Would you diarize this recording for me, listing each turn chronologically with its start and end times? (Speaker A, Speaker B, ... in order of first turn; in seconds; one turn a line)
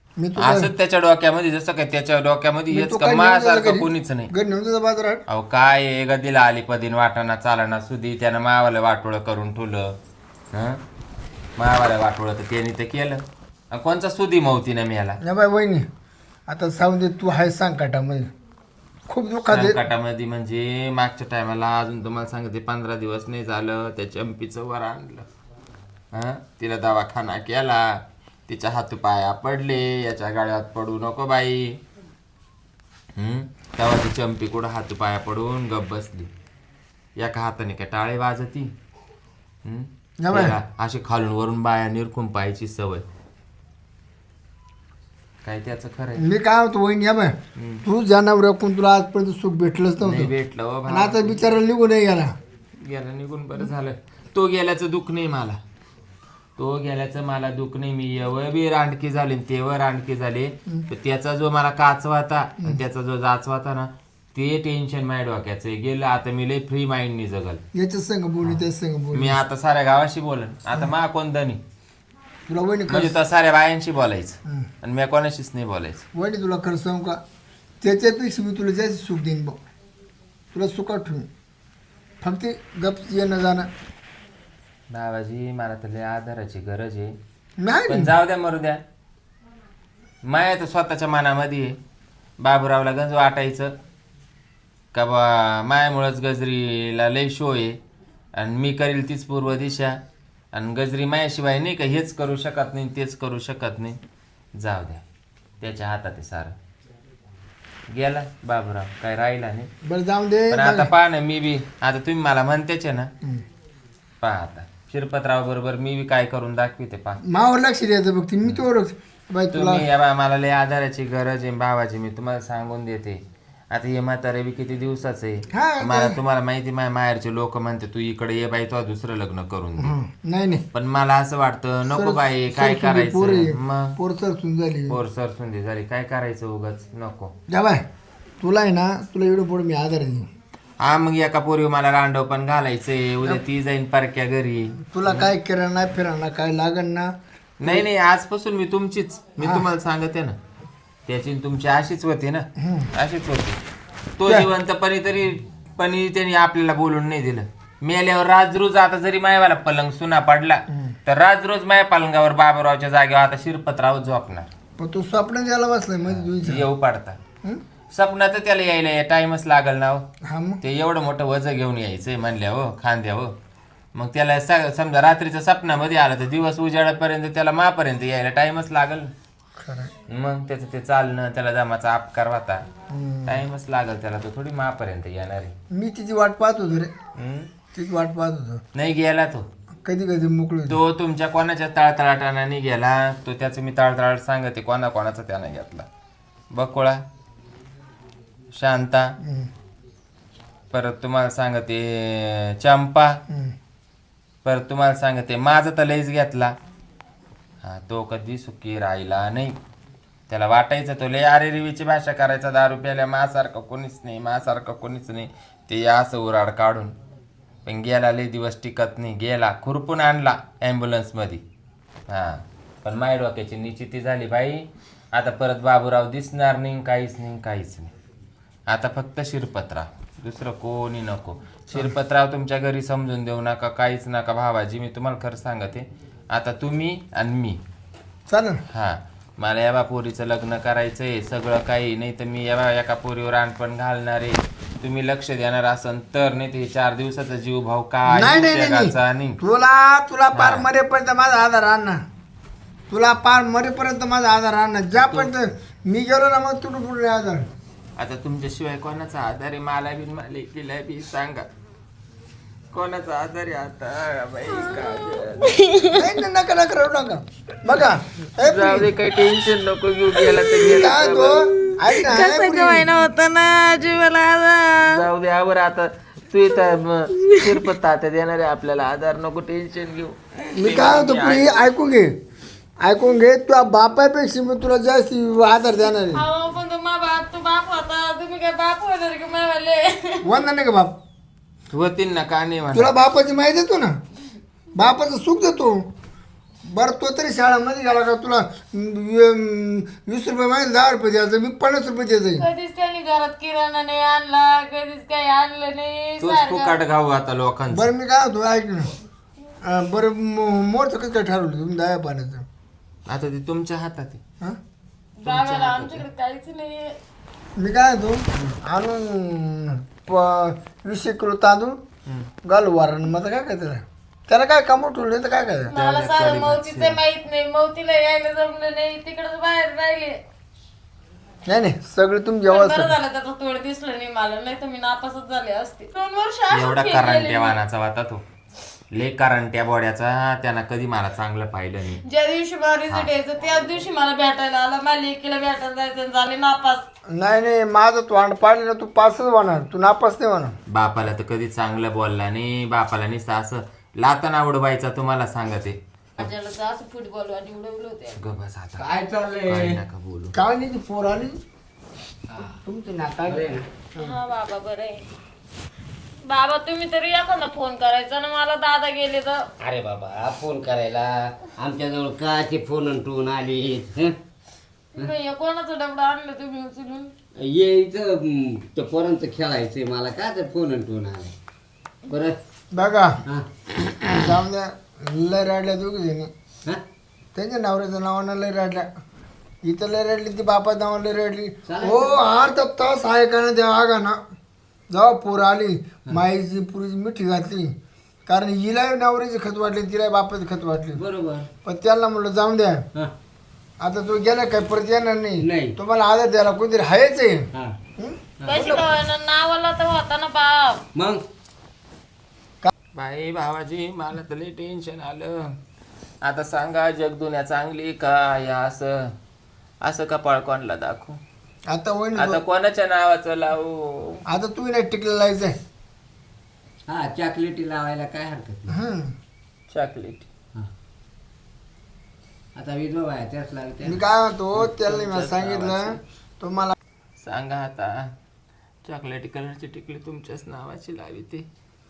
Speaker A: 0.2-0.7
Speaker B: 0.4-4.3
Speaker A: 2.7-5.2
Speaker B: 5.3-9.9
Speaker B: 10.5-10.8
Speaker B: 11.6-15.2
Speaker A: 15.2-15.9
Speaker A: 16.5-18.3
Speaker A: 19.1-19.8
Speaker B: 19.5-25.3
Speaker B: 26.1-31.8
Speaker B: 33.2-36.3
Speaker B: 37.2-38.7
Speaker B: 39.6-43.0
Speaker A: 40.2-40.6
Speaker B: 45.4-46.2
Speaker A: 46.2-50.3
Speaker B: 47.6-47.8
Speaker B: 50.0-51.4
Speaker A: 50.9-52.3
Speaker B: 52.8-55.6
Speaker B: 56.6-67.6
Speaker A: 67.7-69.4
Speaker B: 68.4-71.6
Speaker A: 72.5-73.2
Speaker B: 72.9-76.0
Speaker A: 76.1-77.2
Speaker A: 77.8-79.6
Speaker A: 80.5-81.3
Speaker A: 82.2-83.7
Speaker B: 84.9-87.2
Speaker A: 87.6-88.1
Speaker B: 87.9-88.8
Speaker B: 90.2-91.8
Speaker B: 92.4-93.7
Speaker B: 94.9-97.8
Speaker B: 98.4-100.0
Speaker B: 100.5-104.0
Speaker B: 104.6-105.0
Speaker B: 105.6-106.5
Speaker B: 107.9-109.7
Speaker A: 109.8-110.9
Speaker B: 110.5-113.1
Speaker B: 114.2-117.2
Speaker A: 117.2-119.9
Speaker B: 119.5-129.9
Speaker A: 125.5-126.2
Speaker A: 129.8-130.6
Speaker B: 130.7-134.0
Speaker A: 131.9-135.0
Speaker B: 134.9-137.3
Speaker A: 137.5-137.8
Speaker A: 138.4-140.3
Speaker B: 140.8-145.3
Speaker A: 144.9-147.1
Speaker B: 147.6-150.4
Speaker A: 149.4-149.7
Speaker B: 151.1-153.6
Speaker A: 152.6-152.9
Speaker B: 154.2-164.5
Speaker A: 164.8-166.7
Speaker B: 166.1-167.2
Speaker B: 167.9-170.1
Speaker A: 170.3-170.6
Speaker B: 170.6-173.3
Speaker B: 173.9-179.1
Speaker A: 179.6-179.9
Speaker B: 180.1-182.6
Speaker A: 182.9-183.4
Speaker B: 183.3-185.5
Speaker A: 185.7-186.9
Speaker B: 187.2-187.5
Speaker A: 187.7-188.6
Speaker B: 188.8-189.5
Speaker A: 189.8-190.8
Speaker B: 190.7-195.9
Speaker B: 196.5-197.0
Speaker B: 198.5-199.1
Speaker A: 199.2-199.5
Speaker B: 200.7-203.2
Speaker B: 204.4-206.5
Speaker B: 207.6-209.6
Speaker B: 210.3-216.9
Speaker B: 217.7-221.4
Speaker B: 222.1-227.9
Speaker B: 228.7-237.6
Speaker A: 238.3-238.6
Speaker B: 238.7-249.4
Speaker A: 248.1-252.0
Speaker B: 250.3-250.7
Speaker A: 252.9-257.4
Speaker B: 254.9-255.3
Speaker B: 258.0-261.5
Speaker B: 262.7-265.7
Speaker C: 265.4-266.0
Speaker A: 265.9-268.9
Speaker B: 268.4-271.8
Speaker A: 270.5-272.9
Speaker C: 271.8-275.1
Speaker B: 274.8-281.6
Speaker A: 280.5-282.1
Speaker A: 282.8-286.3
Speaker C: 285.9-290.3
Speaker A: 290.2-291.0
Speaker B: 291.7-292.9
Speaker A: 292.7-294.0
Speaker A: 294.7-295.8
Speaker A: 296.7-302.5
Speaker C: 302.4-306.8
Speaker B: 306.2-307.9
Speaker A: 307.7-308.9
Speaker A: 309.6-312.4
Speaker B: 313.1-314.2
Speaker C: 315.2-316.9
Speaker B: 315.2-316.1
Speaker A: 317.6-321.8
Speaker A: 322.4-325.7
Speaker C: 325.7-330.2
Speaker B: 325.8-327.0
Speaker A: 331.5-333.0
Speaker C: 332.5-337.6
Speaker B: 336.5-338.2
Speaker B: 338.9-342.0
Speaker C: 342.1-346.9
Speaker A: 347.1-350.6
Speaker B: 350.7-356.2
Speaker C: 356.2-358.2
Speaker B: 358.2-358.9
Speaker D: 358.8-359.8
Speaker B: 359.5-360.4
Speaker A: 360.3-361.4
Speaker A: 362.4-364.2
Speaker D: 363.3-363.6
Speaker C: 364.0-365.0
Speaker C: 366.2-369.5
Speaker D: 369.6-374.1
Speaker C: 374.9-377.1
Speaker D: 377.4-381.4
Speaker D: 382.1-382.4
Speaker A: 382.7-383.2
Speaker D: 383.3-383.6
Speaker A: 384.1-386.3
Speaker A: 387.4-388.9
Speaker A: 389.6-394.2
Speaker D: 391.7-392.2
Speaker A: 394.9-397.7
Speaker A: 398.3-401.0
Speaker D: 400.9-401.5
Speaker A: 401.6-402.8
Speaker A: 403.8-407.5
Speaker D: 405.4-405.8
Speaker A: 408.0-408.9
Speaker D: 408.4-408.8
Speaker C: 408.5-410.8
Speaker D: 411.0-411.2
Speaker B: 413.0-415.6
Speaker B: 416.2-419.1
Speaker B: 419.8-421.2
Speaker A: 421.7-422.4
Speaker B: 422.2-424.2
Speaker A: 424.3-425.6
Speaker D: 426.9-428.8
Speaker A: 428.7-429.1
Speaker B: 429.7-430.3
Speaker D: 432.6-434.0
Speaker A: 433.8-436.8
Speaker B: 434.6-436.0
Speaker B: 437.2-438.1
Speaker B: 438.8-441.5